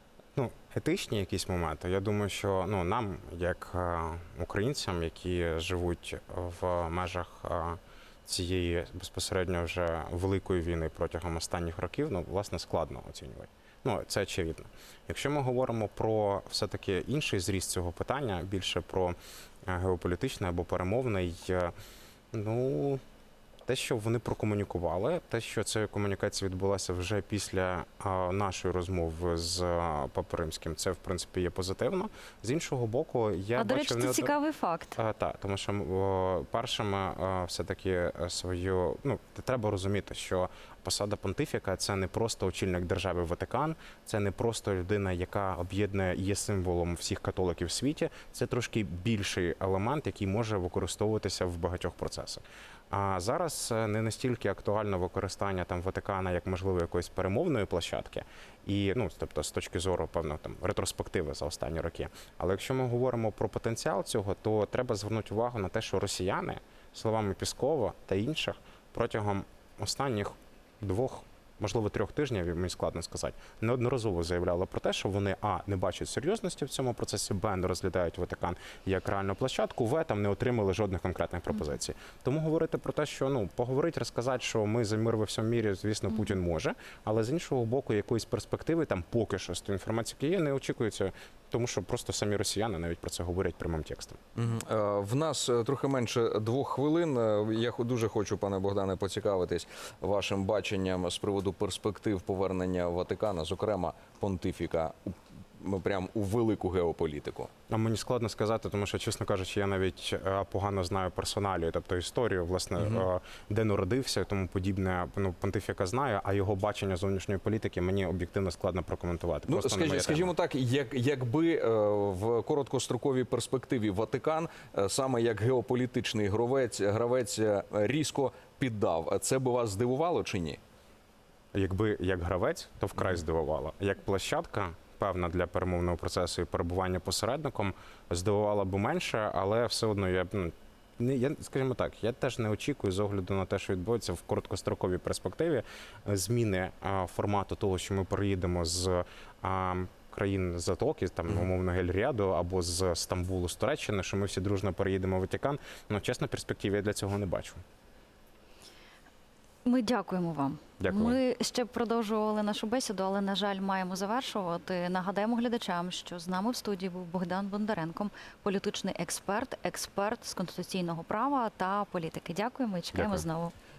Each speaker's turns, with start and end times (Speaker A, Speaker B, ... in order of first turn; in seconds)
Speaker A: 0.3-21.7, 22.3-23.0, 23.7-34.3, 35.0-94.2, 107.7-120.3, 131.5-157.6, 160.8-161.2, 172.9-173.2
Speaker B: 33.6-35.0, 159.6-173.5
Speaker C: 94.3-107.5, 112.8-113.0, 119.5-130.6